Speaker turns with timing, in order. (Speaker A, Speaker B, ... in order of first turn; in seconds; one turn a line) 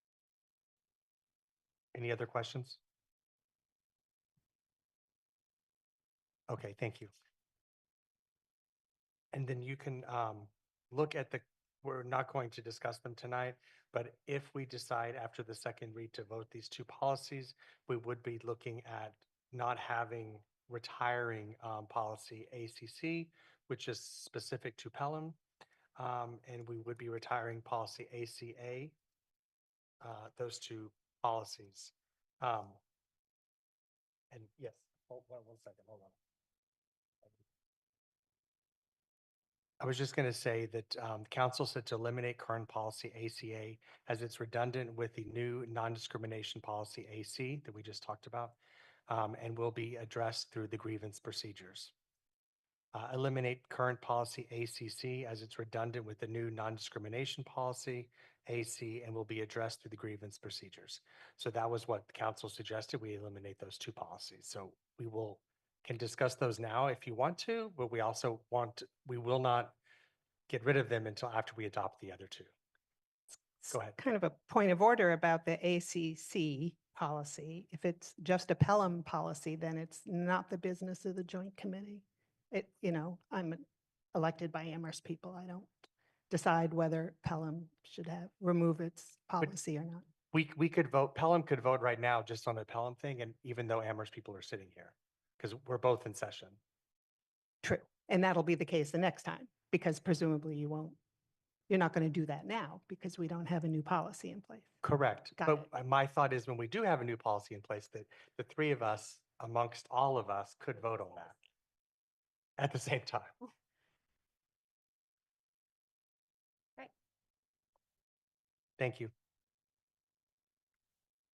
Speaker A: 1.9-2.8
Speaker A: 6.5-7.1
Speaker A: 9.3-25.4
Speaker A: 26.0-28.9
Speaker A: 30.0-32.8
Speaker A: 34.3-36.1
Speaker A: 39.8-48.6
Speaker A: 49.1-51.9
Speaker A: 52.9-69.8
Speaker A: 70.5-72.5
Speaker B: 73.6-85.7
Speaker A: 73.7-74.0
Speaker B: 86.3-90.0
Speaker A: 90.3-96.6
Speaker B: 97.6-101.0
Speaker B: 101.7-104.8
Speaker A: 104.8-111.4
Speaker B: 105.4-105.7
Speaker A: 112.6-113.3
Speaker A: 118.8-119.1